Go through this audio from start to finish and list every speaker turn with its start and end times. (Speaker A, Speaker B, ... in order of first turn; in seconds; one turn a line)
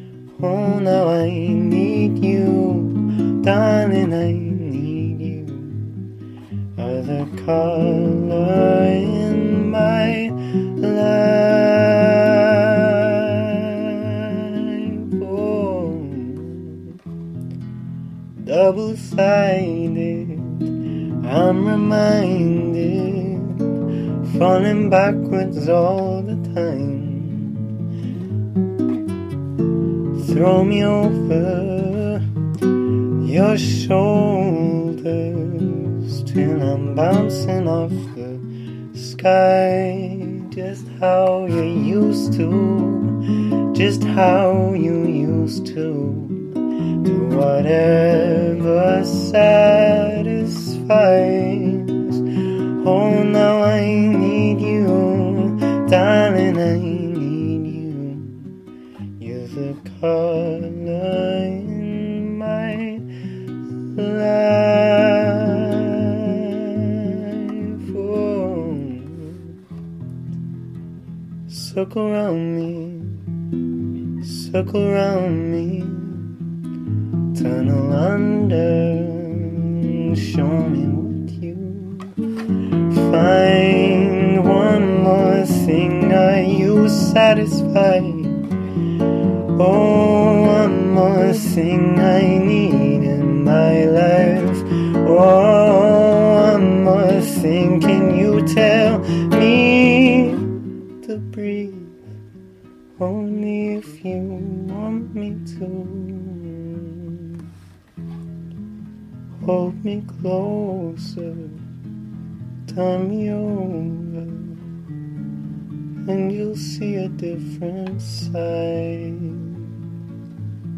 Speaker A: 0.4-5.9
Speaker A: 6.8-13.4
Speaker A: 14.1-16.8
Speaker A: 18.4-20.7
Speaker A: 21.2-23.6
Speaker A: 24.2-27.6
Speaker A: 30.2-32.2
Speaker A: 33.2-43.2
Speaker A: 43.7-52.2
Speaker A: 52.8-58.5
Speaker A: 59.2-63.0
Speaker A: 64.0-66.3
Speaker A: 67.3-69.3
Speaker A: 71.5-73.3
Speaker A: 74.2-76.3
Speaker A: 77.3-82.2
Speaker A: 82.9-88.4
Speaker A: 89.6-100.4
Speaker A: 101.0-101.9
Speaker A: 103.0-107.2
Speaker A: 109.4-111.6
Speaker A: 112.7-114.5
Speaker A: 116.0-119.5